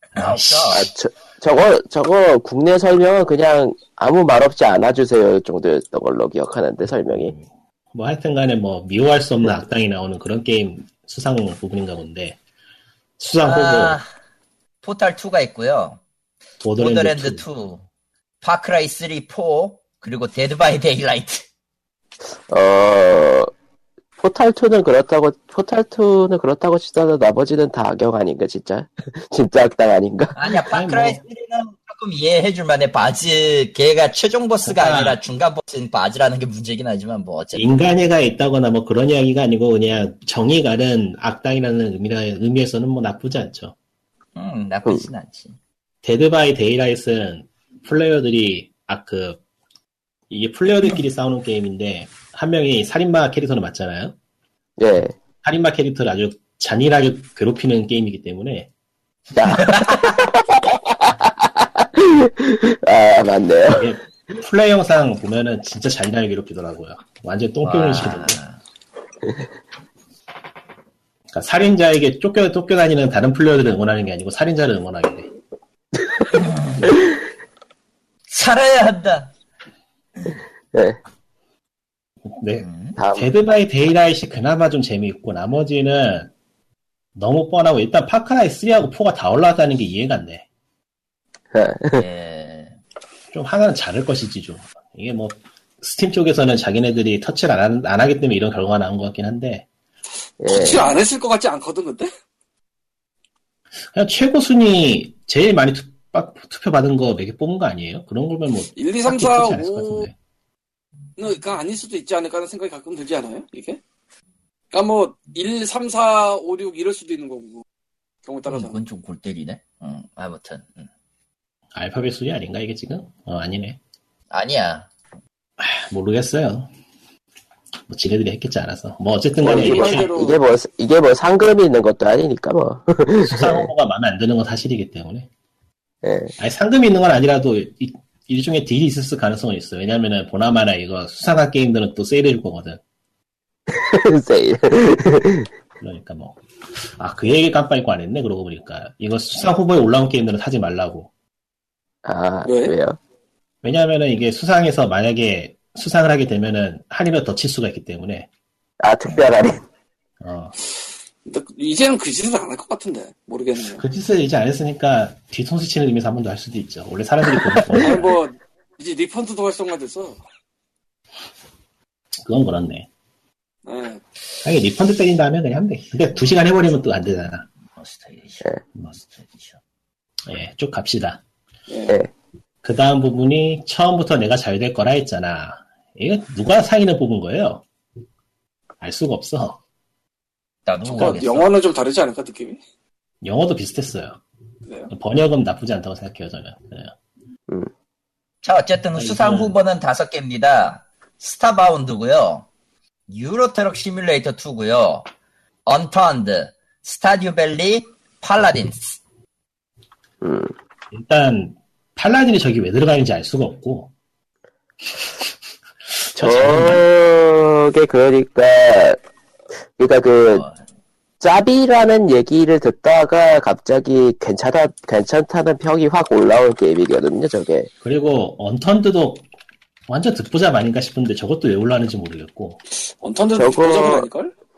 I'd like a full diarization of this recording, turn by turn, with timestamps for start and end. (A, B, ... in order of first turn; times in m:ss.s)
0:00.2-0:00.9 A
0:00.2-0:00.9 B
0:00.7-0:07.3 C
0:07.1-0:12.4 A
0:13.2-0:14.0 A
0:13.4-0:14.1 B
0:14.8-0:16.0 B
0:16.6-0:17.4 A
0:16.8-0:17.8 B
0:18.4-0:21.4 B
0:22.5-0:23.5 C
0:24.2-0:30.4 C
0:30.4-0:37.7 B
0:30.7-0:31.2 A
0:34.6-0:35.2 A
0:37.5-0:43.8 A
0:44.4-0:45.6 B
0:46.0-0:49.4 A
0:50.3-0:54.2 A
0:54.8-0:55.2 C
0:55.4-0:58.7 A
0:59.4-1:03.9 C
0:59.6-1:00.1 B
1:03.7-1:08.4 A
1:07.6-1:08.6 B
1:11.3-1:15.3 A
1:16.3-1:16.9 B
1:18.3-1:19.3 B
1:20.7-1:21.0 C
1:22.3-1:26.3 A
1:22.6-1:23.0 B
1:23.0-1:23.3 C
1:27.2-1:30.4 A
1:31.5-1:32.0 C
1:32.0-1:32.8 B
1:33.3-1:39.7 A
1:40.4-1:40.9 C
1:40.5-1:42.1 D
1:43.9-1:50.1 A
1:48.8-1:50.1 D
1:51.2-1:53.8 D
1:54.7-1:57.6 D
1:58.3-1:58.8 D
1:58.5-2:00.9 B
2:01.7-2:03.8 A
2:04.3-2:04.9 B
2:05.6-2:06.7 A
2:07.9-2:10.1 A
2:09.4-2:13.7 C
2:09.4-2:10.4 D
2:13.2-2:15.3 A
2:16.0-2:16.3 C
2:16.4-2:22.8 A
2:23.7-2:25.5 C
2:25.8-2:26.4 A
2:27.0-2:31.1 A
2:32.0-2:33.0 C
2:32.4-2:32.7 D
2:33.6-2:38.3 A
2:38.8-2:39.6 C
2:40.2-2:40.5 A
2:41.3-2:43.8 D
2:43.7-2:48.2 A
2:47.4-2:47.8 C
2:47.7-2:50.2 D
2:52.2-2:52.9 A
2:53.6-2:54.0 D
2:54.4-2:57.5 A
2:57.8-2:59.6 B
3:00.3-3:01.2 A
3:01.7-3:02.0 D
3:02.6-3:07.7 A
3:08.8-3:09.6 A
3:10.7-3:11.5 B
3:10.9-3:12.6 D
3:13.2-3:14.2 A
3:14.9-3:16.9 A
3:18.4-3:22.5 B
3:19.0-3:19.6 A
3:23.1-3:25.1 B
3:25.7-3:29.0 B
3:30.2-3:30.5 C
3:30.9-3:33.9 A
3:36.0-3:36.8 A
3:36.2-3:39.0 C
3:36.5-3:36.8 B
3:39.8-3:40.5 C
3:40.3-3:40.6 B
3:41.2-3:47.7 C
3:47.8-3:49.2 A
3:49.9-3:52.6 A
3:53.0-3:54.3 D
3:53.4-3:54.1 C